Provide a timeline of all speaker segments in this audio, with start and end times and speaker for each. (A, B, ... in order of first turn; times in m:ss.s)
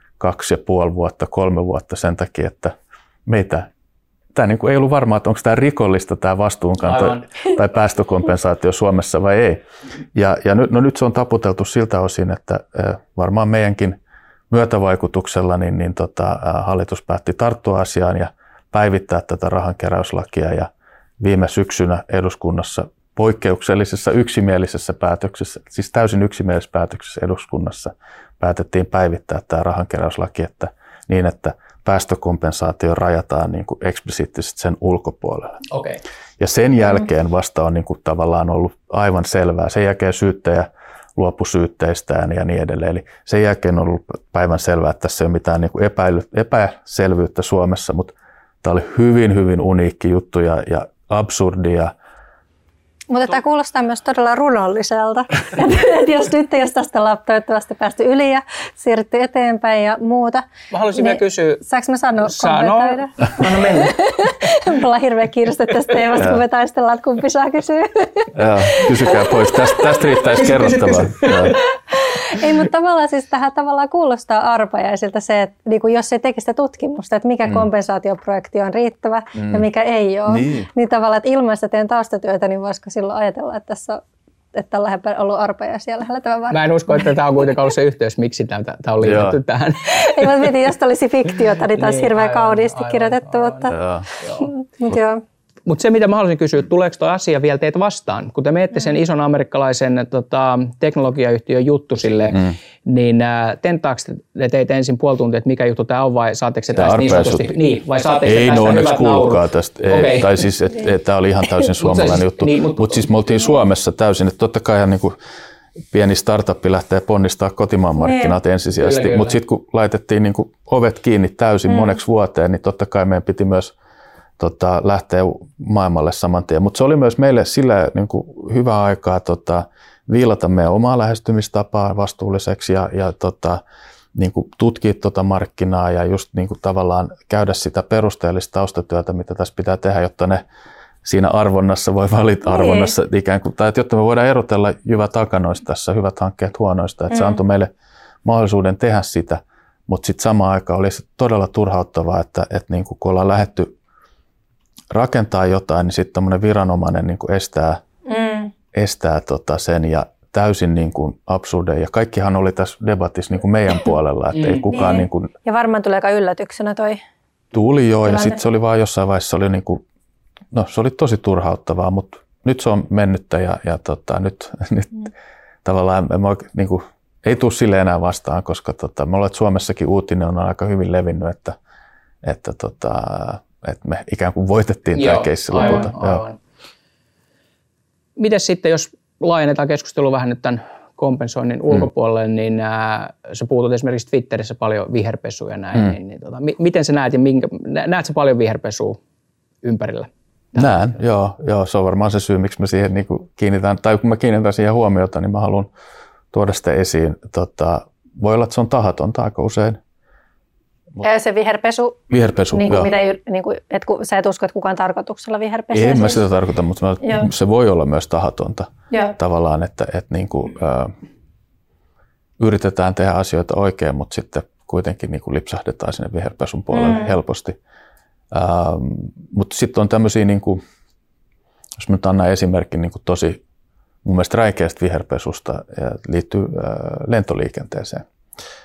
0:00.2-0:02.7 A
0:03.2-0:03.7 A
0:04.3-0:14.0 A
0:06.8-0:07.2 B
0:14.5-0:20.7 A
0:21.2-0:35.6 A
0:35.7-0:36.0 B
0:36.4-0:51.9 A
0:53.1-1:09.1 C
1:00.7-1:01.6 B
1:02.2-1:04.0 B
1:08.3-1:11.6 A
1:10.2-1:11.6 B
1:11.9-1:24.0 C
1:19.4-1:19.6 A
1:20.3-1:20.7 A
1:24.5-1:26.6 C
1:26.5-1:30.5 B
1:29.0-1:29.4 A
1:29.9-1:33.8 C
1:31.6-1:34.5 B
1:33.7-1:34.1 A
1:34.4-1:35.2 C
1:35.6-1:50.4 B
1:46.7-1:47.5 A
1:48.2-1:55.2 A
1:51.6-1:53.0 B
1:55.9-2:03.7 A
1:58.8-1:59.4 B
2:04.4-2:13.6 A
2:14.1-2:20.4 A
2:21.0-2:27.7 A
2:22.5-2:22.9 C
2:28.2-2:33.7 A
2:34.9-2:37.8 A
2:38.0-2:38.5 C
2:38.7-2:45.3 A
2:44.3-2:44.7 B
2:44.7-2:47.0 C
2:47.5-2:49.8 A
2:48.0-2:48.4 C
2:50.5-2:55.1 A
2:55.6-3:01.6 A
3:02.2-3:06.2 A
3:05.0-3:06.4 B
3:08.2-3:19.0 B
3:19.6-3:20.8 B
3:20.5-3:25.7 A
3:26.3-3:29.8 A
3:31.0-3:36.3 C
3:32.1-3:32.9 A
3:35.7-3:40.9 A
3:37.0-3:37.3 C
3:38.9-3:39.2 C
3:42.4-3:47.6 A
3:46.7-3:47.1 C
3:48.3-3:50.6 A
3:51.8-3:53.4 A
3:54.0-3:58.0 A